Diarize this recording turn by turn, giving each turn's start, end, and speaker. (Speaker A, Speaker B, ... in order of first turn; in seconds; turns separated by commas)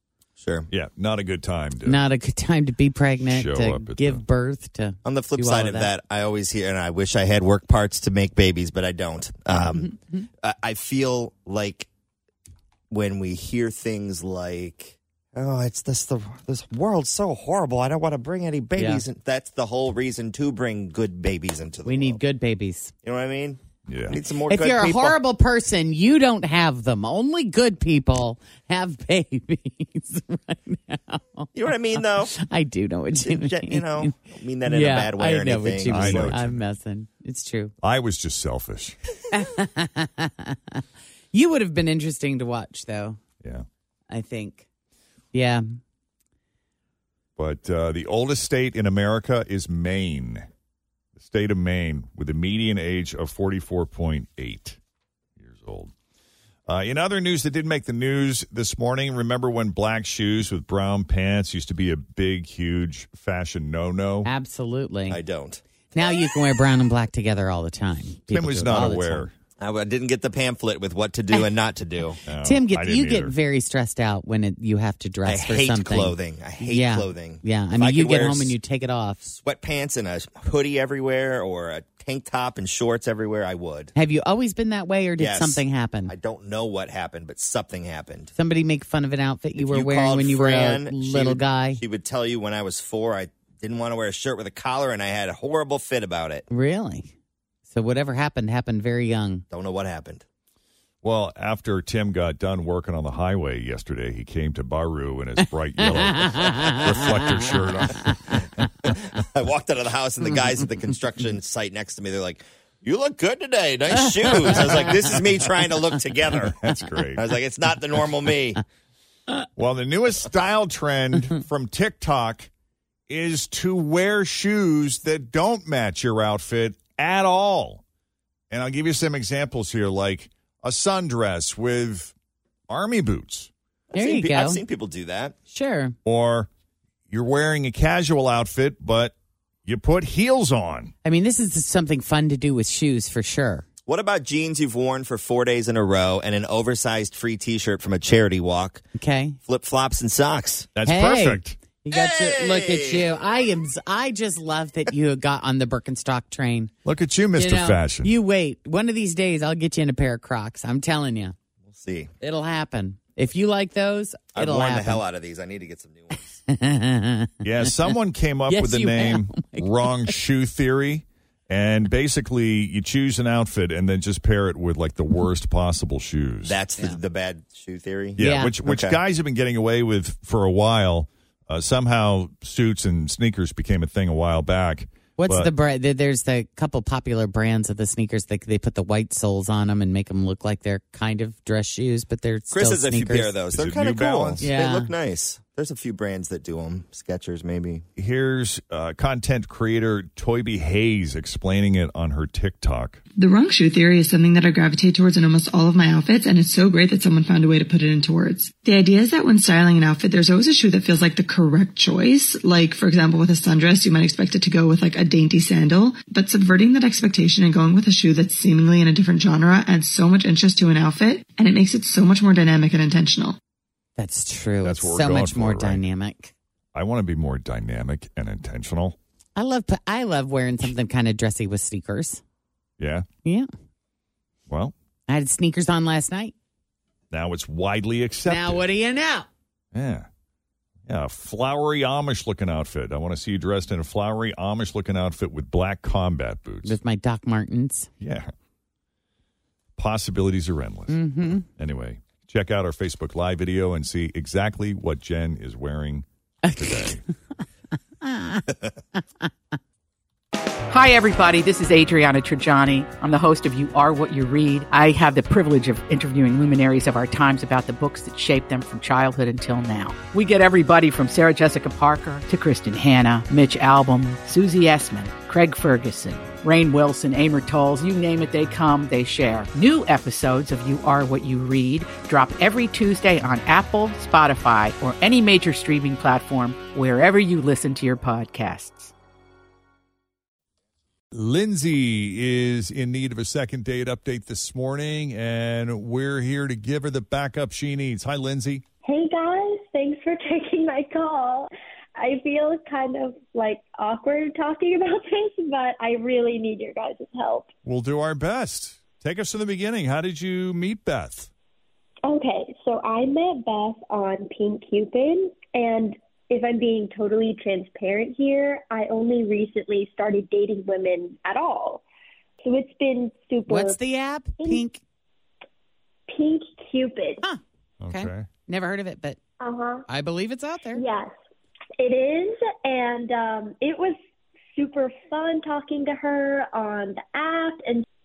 Speaker A: 0.4-0.7, Speaker B: 0.7-2.0, Speaker C: 1.8-5.9, Speaker B: 3.3-4.2, Speaker A: 5.0-11.9, Speaker C: 9.6-10.2, Speaker A: 12.9-22.2, Speaker C: 18.8-19.0, Speaker C: 21.9-22.9, Speaker A: 23.0-25.2, Speaker B: 23.9-24.2, Speaker C: 24.5-34.1, Speaker A: 31.5-32.3, Speaker A: 33.2-36.4, Speaker C: 34.6-37.7, Speaker B: 35.9-36.6, Speaker B: 37.8-39.0, Speaker C: 39.3-43.2, Speaker C: 44.1-44.6, Speaker C: 45.3-45.8, Speaker B: 47.4-50.5, Speaker B: 51.1-54.8, Speaker B: 55.4-55.9, Speaker B: 56.7-64.3, Speaker C: 64.2-65.2, Speaker A: 65.1-65.6, Speaker C: 65.9-69.3, Speaker B: 68.3-69.3, Speaker A: 69.6-72.2, Speaker B: 72.2-73.3, Speaker C: 72.4-79.3, Speaker A: 75.2-78.5, Speaker A: 79.3-83.9, Speaker C: 83.9-86.1, Speaker A: 85.2-88.3, Speaker C: 88.3-91.8, Speaker A: 89.6-96.4, Speaker C: 96.5-97.1, Speaker C: 97.7-99.4, Speaker A: 99.5-100.2, Speaker B: 101.0-108.6, Speaker C: 105.8-108.4, Speaker A: 108.9-116.5, Speaker C: 114.0-115.1, Speaker B: 114.5-115.0, Speaker B: 116.3-117.3, Speaker A: 117.2-118.6, Speaker B: 119.5-122.5, Speaker B: 123.1-127.8, Speaker B: 128.5-132.1, Speaker B: 132.7-133.5, Speaker A: 133.9-135.3, Speaker C: 133.9-134.6, Speaker C: 135.5-135.9, Speaker B: 136.0-136.5, Speaker B: 137.1-139.1, Speaker B: 139.7-140.9, Speaker C: 141.0-143.7, Speaker A: 143.9-148.8, Speaker C: 148.9-149.4, Speaker A: 149.4-150.7, Speaker B: 150.7-151.6, Speaker C: 150.8-156.7, Speaker A: 151.9-153.1, Speaker B: 156.8-158.1, Speaker C: 157.3-161.3, Speaker A: 161.7-162.1, Speaker C: 162.2-165.0, Speaker A: 164.3-166.4, Speaker C: 166.5-167.3, Speaker B: 167.4-176.6, Speaker C: 168.5-170.1, Speaker A: 176.4-179.0, Speaker B: 178.2-185.5, Speaker C: 178.2-178.6, Speaker C: 185.2-193.3, Speaker A: 192.5-197.8, Speaker B: 193.5-194.4, Speaker C: 194.4-194.9, Speaker B: 197.9-203.0, Speaker D: 203.2-223.3, Speaker C: 224.0-226.3, Speaker B: 224.6-225.8, Speaker B: 226.7-229.0, Speaker C: 229.3-232.2, Speaker B: 232.8-233.1, Speaker B: 234.5-234.7, Speaker C: 235.1-236.3, Speaker B: 237.1-238.7, Speaker C: 238.3-239.3, Speaker B: 239.7-240.1, Speaker B: 240.8-246.8, Speaker C: 246.6-247.9, Speaker B: 248.0-248.3, Speaker B: 249.8-256.1, Speaker C: 250.9-251.4, Speaker C: 256.4-256.9, Speaker B: 256.6-257.0, Speaker C: 258.0-258.5, Speaker E: 260.7-288.9, Speaker B: 291.1-298.6, Speaker F: 298.8-307.5, Speaker B: 307.6-311.3, Speaker F: 312.0-321.8, Speaker F: 322.4-323.8, Speaker C: 323.5-324.8, Speaker F: 324.4-324.6, Speaker F: 326.1-327.2, Speaker C: 327.2-329.2, Speaker B: 327.8-328.3, Speaker F: 329.4-329.8, Speaker C: 329.9-330.8, Speaker F: 330.7-331.1, Speaker F: 331.8-334.0, Speaker F: 334.5-337.8